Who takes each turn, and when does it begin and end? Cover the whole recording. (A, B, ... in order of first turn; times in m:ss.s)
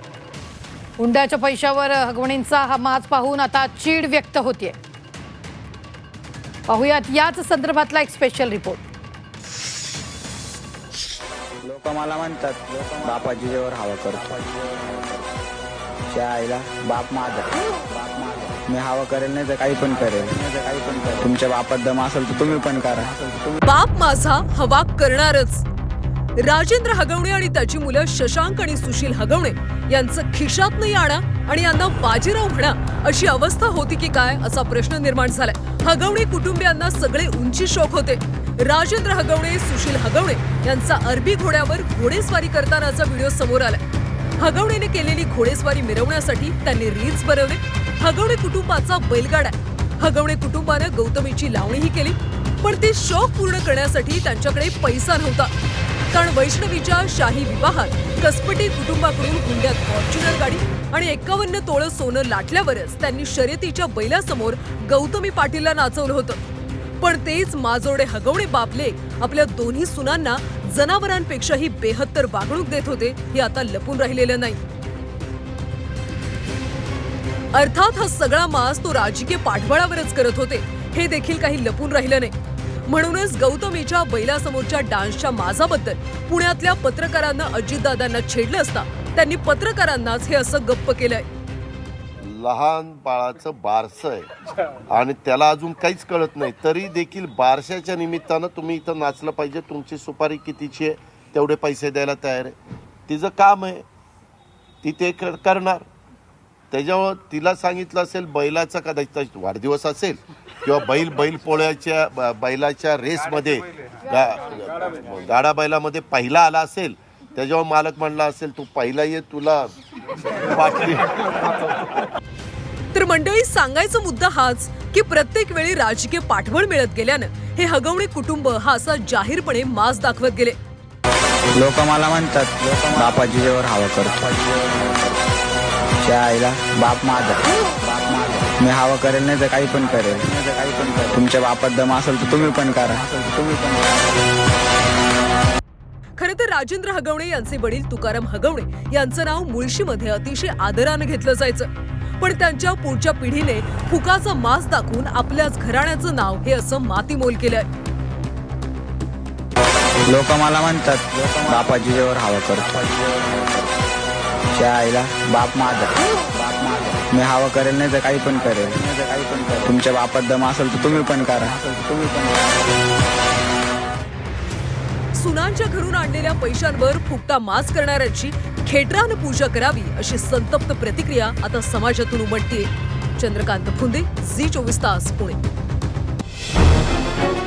0:01.0-0:04.8 A
0:06.7-0:08.8 A
0:11.6-0:15.4 B
0:16.1-0:23.6 B
0:23.6-0:25.6 C
0:26.4-0:43.8 C
0:44.4-0:55.5 C
0:56.1-1:06.4 C
1:07.0-1:14.6 C
1:17.5-1:22.3 C
1:22.9-1:31.2 C
1:32.2-1:34.3 D
1:34.9-1:42.6 D
1:43.1-1:43.8 D
1:44.8-1:45.9 D
1:46.7-1:59.7 D
2:00.4-2:01.7 D
2:02.9-2:10.6 C
2:11.5-2:15.2 B
2:16.0-2:24.2 B
2:26.2-2:31.7 C
2:32.2-2:37.7 C
2:40.0-2:43.8 B
2:44.5-2:52.7 B
2:55.1-3:05.4 C